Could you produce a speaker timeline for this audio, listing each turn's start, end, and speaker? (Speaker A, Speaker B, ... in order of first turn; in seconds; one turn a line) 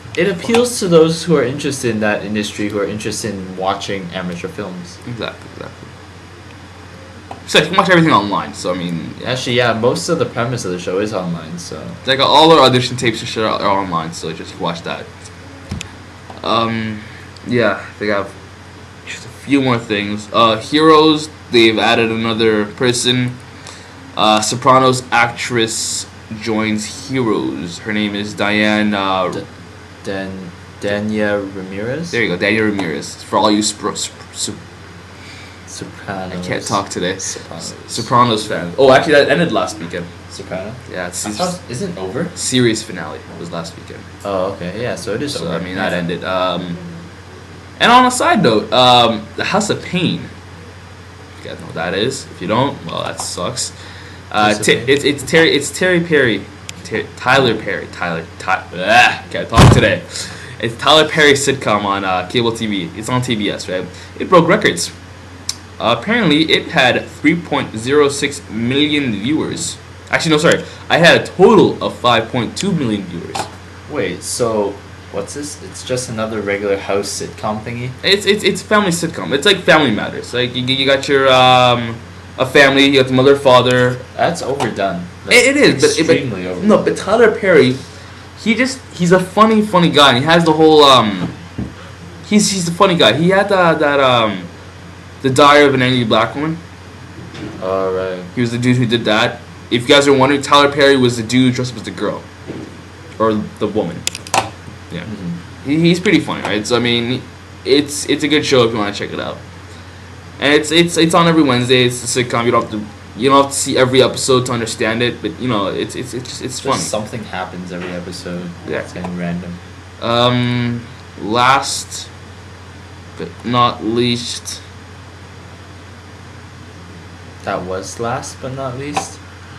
Speaker A: 0.1-5.0
Speaker B: 5.0-5.9
Speaker B: 7.5-9.3
Speaker A: 9.2-12.0
Speaker B: 12.0-15.1
Speaker B: 16.4-18.3
Speaker B: 19.0-23.4
Speaker B: 24.1-29.4
Speaker A: 30.0-32.2
Speaker B: 32.1-34.6
Speaker A: 35.7-38.1
Speaker B: 36.3-40.1
Speaker A: 40.3-42.3
Speaker B: 40.9-41.5
Speaker B: 42.3-44.1
Speaker A: 44.2-46.0
Speaker B: 45.3-46.8
Speaker B: 47.8-50.3
Speaker B: 51.4-53.7
Speaker B: 54.3-64.9
Speaker A: 54.4-54.9
Speaker B: 65.8-73.5
Speaker A: 73.9-78.0
Speaker B: 78.0-84.0
Speaker A: 84.1-86.9
Speaker B: 85.3-87.8
Speaker B: 88.4-91.4
Speaker B: 92.2-94.5
Speaker B: 95.2-96.6
Speaker A: 97.6-98.3
Speaker B: 98.3-102.2
Speaker B: 103.2-104.1
Speaker A: 105.1-105.4
Speaker B: 105.6-109.4
Speaker B: 110.4-116.9
Speaker A: 116.6-119.6
Speaker B: 118.7-118.9
Speaker B: 120.0-122.1
Speaker B: 123.2-124.6
Speaker A: 127.4-129.2